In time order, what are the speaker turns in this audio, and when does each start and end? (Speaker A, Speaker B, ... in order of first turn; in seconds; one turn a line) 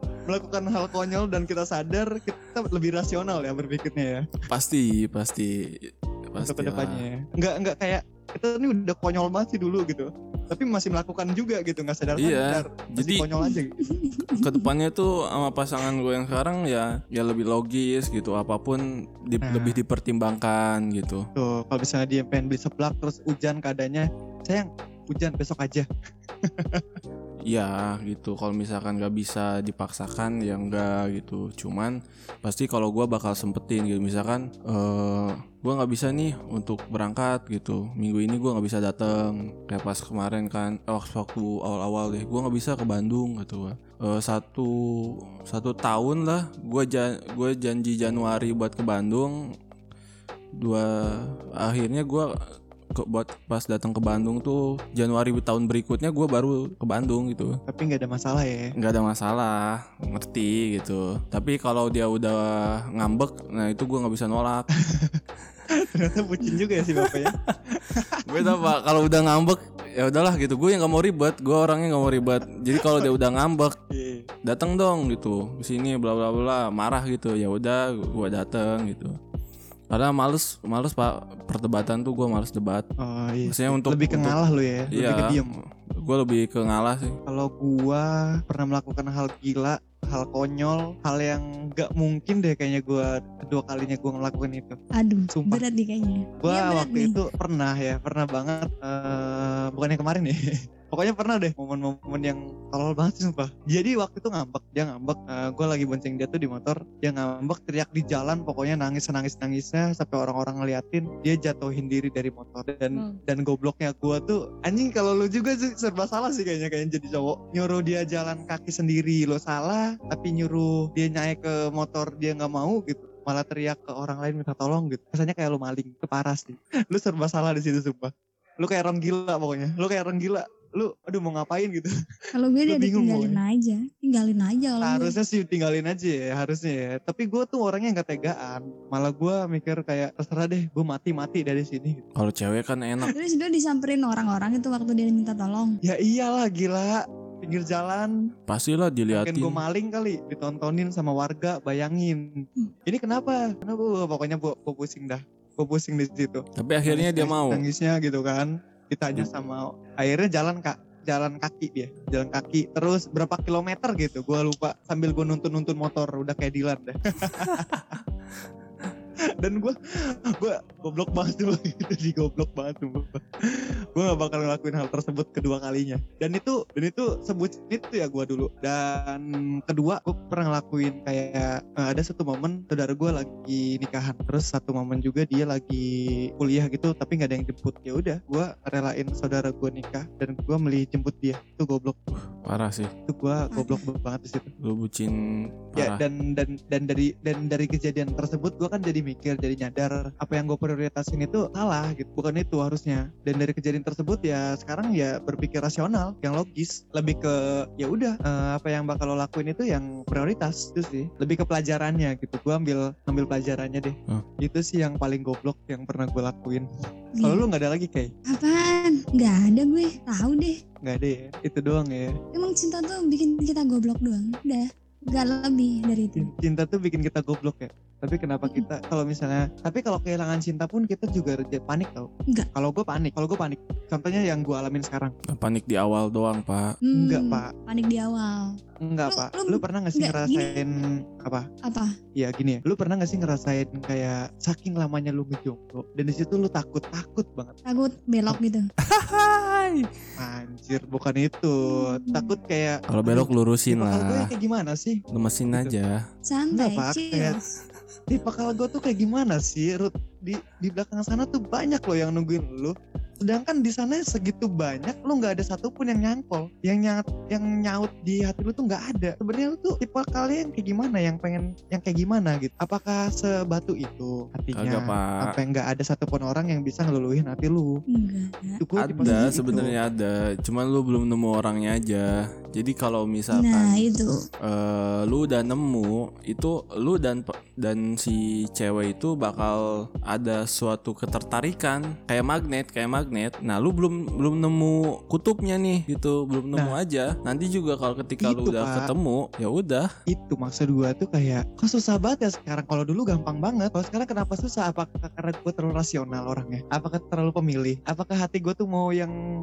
Speaker A: 0.3-4.2
Speaker B: 4.5-7.0
Speaker A: 6.4-13.8
Speaker B: 12.2-13.3
Speaker C: 13.4-14.7
Speaker B: 14.4-21.2
Speaker A: 19.4-19.8
Speaker A: 21.3-25.9
Speaker A: 26.5-26.8
Speaker B: 27.5-49.3
Speaker B: 50.6-52.3
Speaker B: 52.9-57.6
Speaker A: 57.7-58.7
Speaker B: 58.8-64.7
Speaker A: 64.8-65.2
Speaker A: 65.8-68.2
Speaker B: 66.8-67.3
Speaker B: 68.2-73.8
Speaker A: 72.7-73.1
Speaker A: 73.9-74.3
Speaker B: 74.4-79.1
Speaker B: 79.9-82.9
Speaker A: 83.0-85.5
Speaker B: 83.5-84.4
Speaker B: 84.9-85.5
Speaker B: 86.0-87.1
Speaker A: 87.2-94.8
Speaker C: 95.0-97.2
Speaker A: 95.3-95.6
Speaker A: 96.4-100.4
Speaker A: 100.9-131.9
Speaker C: 132.3-135.1
Speaker A: 132.7-133.4
Speaker A: 134.8-142.0
Speaker B: 142.2-143.2
Speaker C: 143.1-145.8
Speaker A: 145.8-148.1
Speaker B: 148.5-149.6
Speaker A: 149.1-167.7
Speaker B: 156.6-157.6
Speaker B: 167.4-167.8
Speaker A: 169.4-192.0
Speaker B: 192.1-192.9
Speaker A: 193.1-194.5
Speaker C: 193.5-193.8
Speaker B: 194.6-196.0
Speaker A: 195.8-216.7
Speaker C: 217.2-217.4
Speaker A: 217.2-218.1
Speaker C: 218.3-220.6
Speaker A: 220.8-222.1
Speaker C: 222.3-226.3
Speaker A: 226.2-235.1
Speaker B: 235.3-236.8
Speaker C: 236.8-238.6
Speaker A: 236.9-237.5
Speaker A: 238.8-241.4
Speaker C: 239.1-240.6
Speaker C: 241.7-241.9
Speaker A: 242.2-247.6
Speaker C: 247.7-248.7
Speaker B: 248.8-249.9
Speaker A: 250.2-255.7
Speaker C: 251.6-252.3
Speaker B: 252.9-254.3
Speaker B: 255.1-255.9
Speaker C: 256.3-257.4
Speaker A: 256.5-257.4
Speaker A: 258.1-277.7
Speaker B: 274.5-275.2
Speaker C: 277.9-279.4
Speaker A: 278.6-279.8
Speaker B: 278.8-283.9
Speaker C: 283.3-284.1
Speaker B: 284.4-299.9
Speaker A: 298.2-298.9
Speaker A: 300.1-309.1